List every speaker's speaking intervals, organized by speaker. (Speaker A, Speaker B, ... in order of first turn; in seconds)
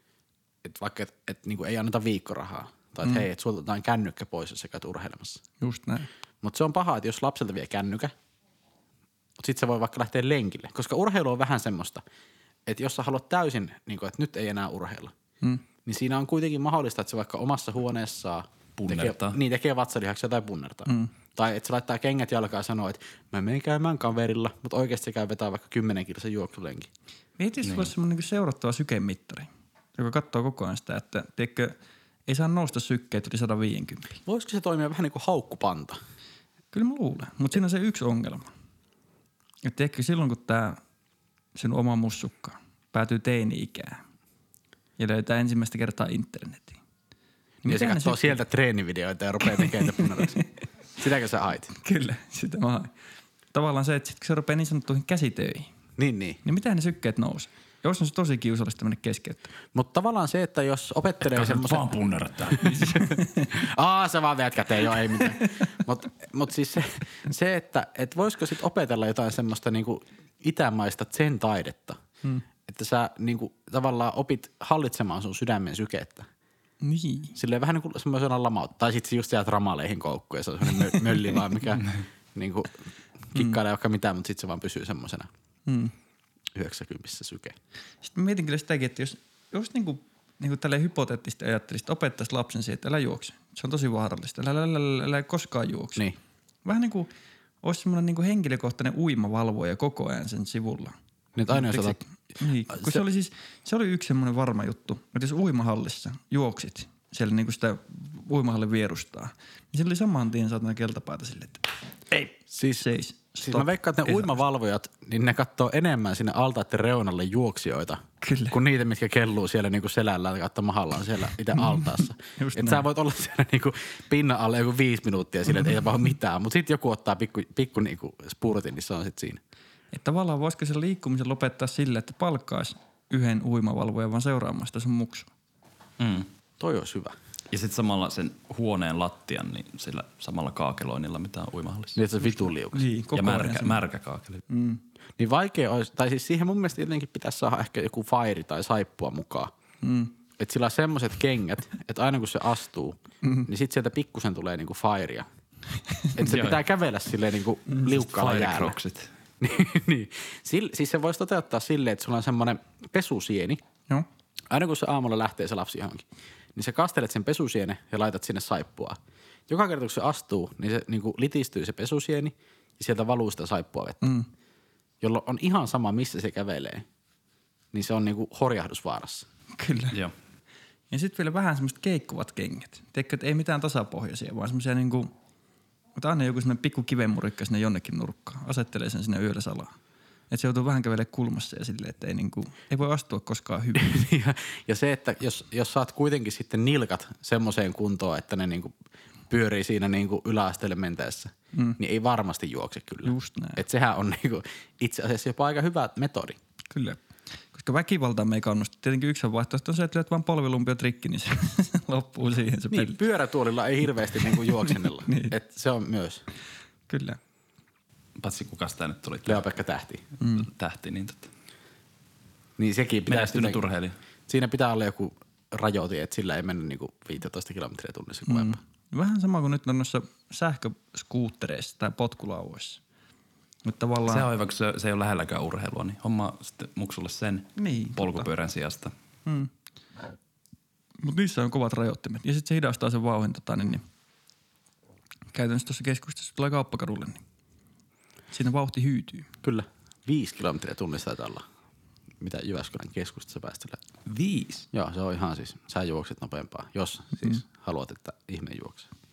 Speaker A: 0.6-5.4, 6.4-8.1, 9.4-12.0, 12.7-15.1, 15.8-26.9, 34.2-36.0, 47.6-50.4, 51.0-51.7, 56.0-56.4, 59.7-62.0, 62.7-72.0, 72.7-76.2, 77.3-82.8, 83.3-85.3, 86.5-87.6, 101.3-102.0, 102.7-103.0, 112.5-129.4, 136.6-137.2, 141.9-142.8, 145.2-149.5, 150.4-155.2, 156.2-158.8, 159.4-163.6, 164.5-166.0, 166.6-169.0, 169.5-174.0, 175.0-176.8, 177.7-179.2, 193.8-198.7, 199.3-206.4, 212.7-216.2, 219.2-220.0, 222.6-223.6, 224.3-228.6, 249.4-251.4, 252.2-253.8, 254.7-258.9
Speaker B: 5.6-6.1, 20.9-21.1, 27.4-34.2, 36.7-38.5, 39.6-40.8, 41.5-44.0, 45.0-46.8, 47.6-48.4, 51.7-52.9, 53.5-55.7, 56.4-59.5, 62.8-63.5, 76.8-77.4, 85.7-85.9, 88.0-96.0, 96.6-97.1, 97.6-100.9, 101.5-111.7, 112.8-114.4, 118.2-118.6, 121.6-122.8, 129.9-135.3, 142.2-143.8, 144.5-144.8, 149.8-150.1, 174.0-174.3, 179.6-180.0, 180.9-185.1, 185.9-189.7, 190.3-193.9, 201.5-201.8, 203.0-203.6, 206.7-213.0, 214.2-215.3, 216.9-217.2, 220.2-220.5, 228.2-232.8, 233.6-234.3, 237.5-238.3, 239.2-239.5, 241.0-243.8, 245.3-247.2, 248.3-249.3
Speaker C: 18.8-19.4, 27.6-27.9, 61.2-62.9, 136.0-136.3, 137.5-142.0, 143.1-144.4, 156.2-156.6, 157.9-159.1, 218.2-219.4, 220.4-221.3, 223.1-224.0, 234.1-238.9, 254.1-254.7